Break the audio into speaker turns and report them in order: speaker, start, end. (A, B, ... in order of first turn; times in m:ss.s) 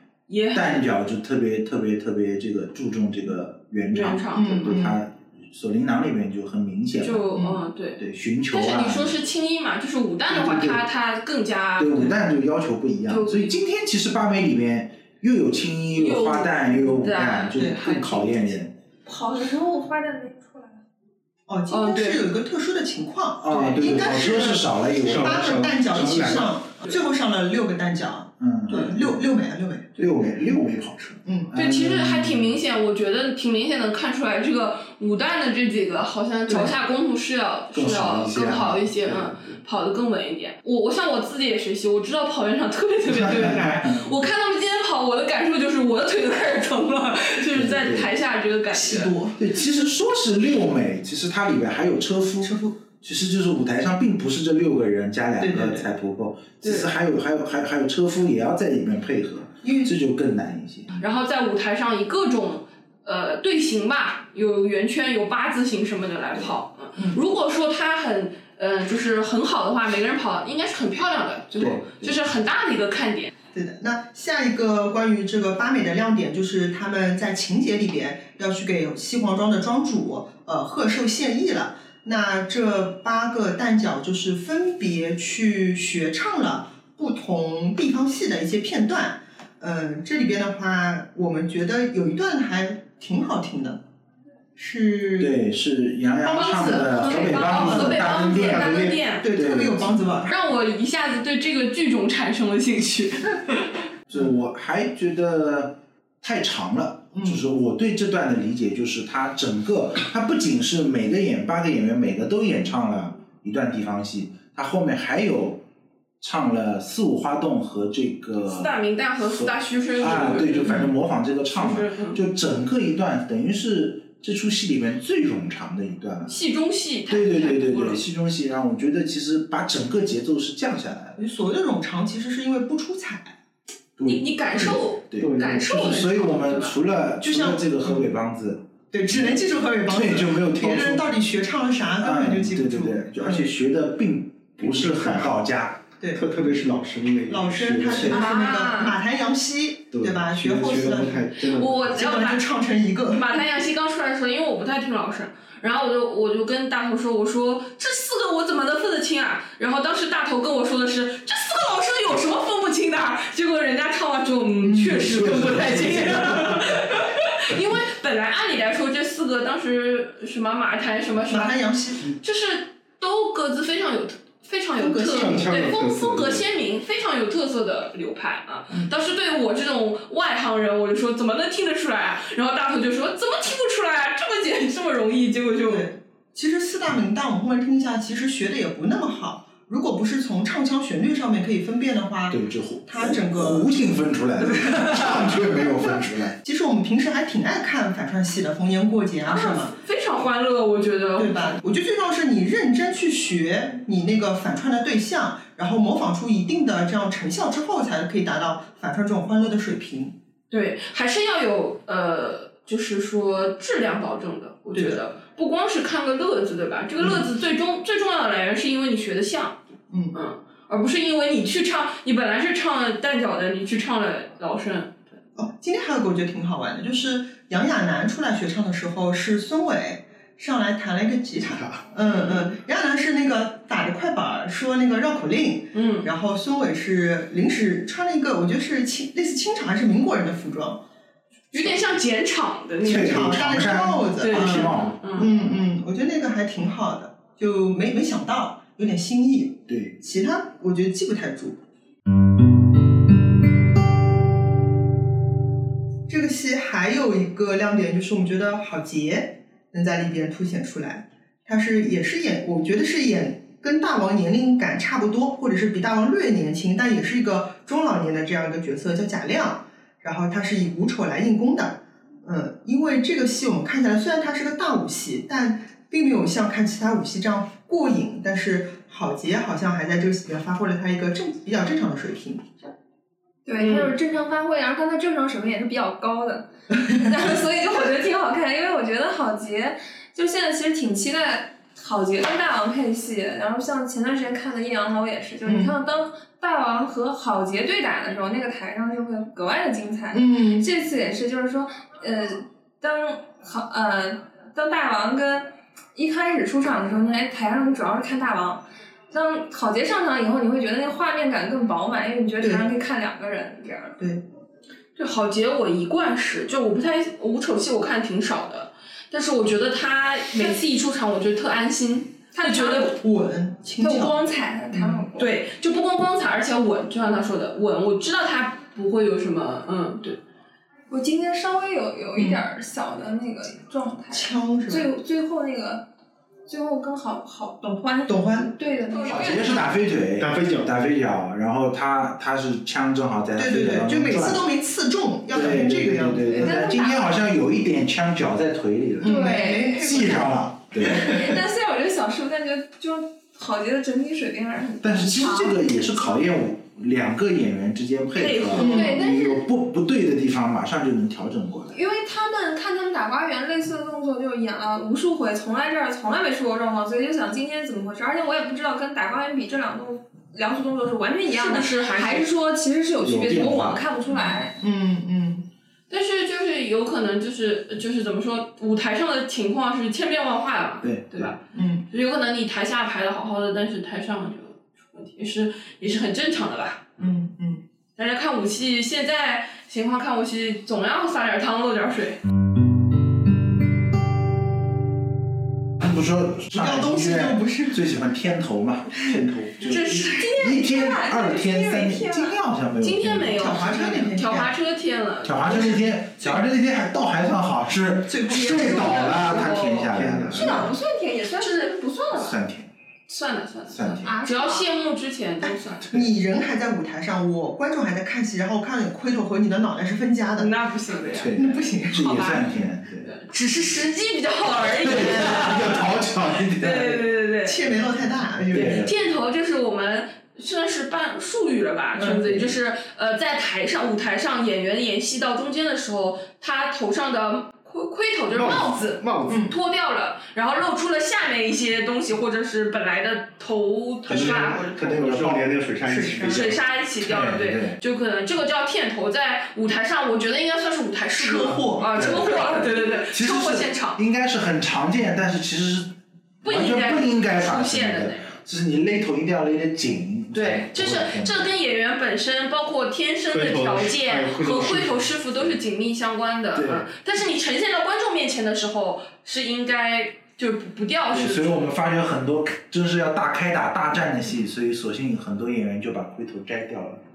0:00.3-0:00.8 A
0:00.5-0:07.4 B
0:03.9-0:04.8 A
0:04.3-0:05.0 C
0:07.0-0:12.2 A
0:07.3-0:07.6 C
0:08.0-0:09.2 B
0:10.3-0:10.8 B
0:11.8-0:18.8 B
0:13.1-0:13.5 A
0:15.9-0:18.5 A
0:19.1-0:20.8 D
0:21.5-0:30.0 C
0:21.7-0:22.2 A
0:23.4-0:26.4 B
0:25.0-0:26.5 E
0:28.4-0:29.2 B
0:30.0-0:32.6 B
0:31.5-0:49.1 A
0:37.7-0:39.3 B
0:43.1-0:44.3 B
0:47.5-0:48.1 B
0:48.7-0:49.4 C
0:49.4-1:00.9 B
0:52.4-0:52.8 C
0:55.4-0:55.9 C
0:56.6-0:56.9 A
0:59.6-0:59.9 C
1:01.0-1:13.3 A
1:11.6-1:12.2 B
1:13.5-1:33.8 C
1:34.6-1:35.3 C
1:35.2-1:40.2 B
1:36.2-1:39.2 A
1:37.1-1:40.4 C
1:40.3-1:43.8 A
1:44.1-1:55.6 B
1:47.1-1:47.4 C
1:56.2-2:06.4 B
1:58.5-2:00.9 A
2:01.5-2:02.2 A
2:06.3-2:08.0 A
2:07.1-2:11.2 B
2:11.2-2:13.4 C
2:14.0-2:21.2 B
2:14.0-2:16.8 A
2:15.2-2:15.6 E
2:17.2-2:18.1 C
2:18.9-2:23.5 C
2:22.0-2:25.8 B
2:24.6-2:25.4 E
2:26.1-2:28.2 E
2:27.3-2:31.3 C
2:27.8-2:28.3 B
2:28.1-2:29.0 A
2:28.3-2:28.9 D
2:30.0-2:32.0 E
2:31.5-2:32.5 A
2:31.9-2:33.2 C
2:33.1-3:05.9 A
2:44.6-2:46.0 C
2:45.1-2:46.7 B
2:51.3-2:52.1 C
2:54.8-2:55.6 C
2:55.1-2:56.5 E
3:05.7-3:13.7 C
3:12.3-3:16.3 B
3:14.5-3:15.2 A
3:15.0-3:19.7 C
3:19.2-3:21.6 A
3:21.2-3:30.1 C
3:30.5-3:39.6 A
3:34.8-3:35.0 C
3:40.1-3:45.2 A
3:45.4-4:00.8 C
3:51.4-3:51.9 E
3:52.1-3:52.5 A
3:55.7-3:56.1 A
4:01.5-4:03.4 A
4:02.8-4:05.0 B
4:02.8-4:11.6 C
4:04.2-4:05.3 A
4:09.7-4:09.9 B
4:16.1-4:42.5 C
4:43.5-5:14.0 D
4:43.6-4:43.9 A
4:55.5-4:55.7 C
5:00.1-5:00.7 C
5:12.4-5:12.7 C
5:15.0-5:23.0 A
5:22.3-5:23.0 D
5:22.7-5:25.0 C
5:23.8-5:25.3 D
5:25.2-5:30.2 A
5:30.9-5:35.9 D
5:32.2-5:32.4 C
5:34.1-5:34.9 C
5:36.5-5:39.7 D
5:38.1-5:38.5 C
5:39.0-5:44.4 B
5:40.2-5:40.7 E
5:43.4-5:46.7 C
5:45.3-5:51.1 B
5:46.4-5:47.2 D
5:49.0-5:51.4 C
5:49.0-5:50.2 D
5:50.8-5:56.2 D
5:54.8-6:01.8 B
5:58.2-5:59.0 A
5:58.5-5:59.4 D
5:58.6-5:59.0 C
6:01.7-6:14.6 D
6:11.3-6:12.3 A
6:13.0-6:14.4 B
6:14.6-6:15.4 C
6:15.9-6:27.0 A
6:20.8-6:21.3 B
6:21.5-6:21.8 C
6:27.0-6:27.6 C
6:28.0-6:32.2 A
6:35.8-6:43.6 B
6:36.5-6:38.1 C
6:39.7-6:40.2 A
6:39.7-6:42.4 D
6:42.8-6:45.7 A
6:43.4-6:44.5 C
6:45.2-6:50.7 B
6:48.0-6:49.5 C
6:48.3-6:49.9 A
6:49.9-6:50.7 E
6:50.3-6:52.2 D
6:51.4-6:52.4 A
6:52.2-6:52.7 B
6:53.1-6:56.0 A
6:53.7-6:54.1 B
6:54.0-6:54.7 D
6:55.4-7:00.5 C
7:00.4-7:05.9 A
7:01.1-7:03.1 B
7:01.3-7:02.1 C
7:04.8-7:07.1 B
7:06.5-7:07.6 A
7:07.4-7:08.8 C
7:08.5-7:09.0 B
7:08.5-7:25.0 A
7:12.0-7:12.3 C
7:12.2-7:12.5 B
7:18.3-7:19.5 E
7:19.3-7:19.5 C
7:24.0-7:25.6 B
7:24.1-7:26.6 E
7:25.8-7:26.6 C
7:26.3-7:34.0 A
7:27.0-7:27.8 B
7:31.2-7:32.3 C
7:31.8-7:41.5 B
7:36.4-7:38.4 A
7:40.3-7:51.7 A
7:43.3-7:45.2 E
7:46.5-7:46.9 B
7:51.1-7:57.0 B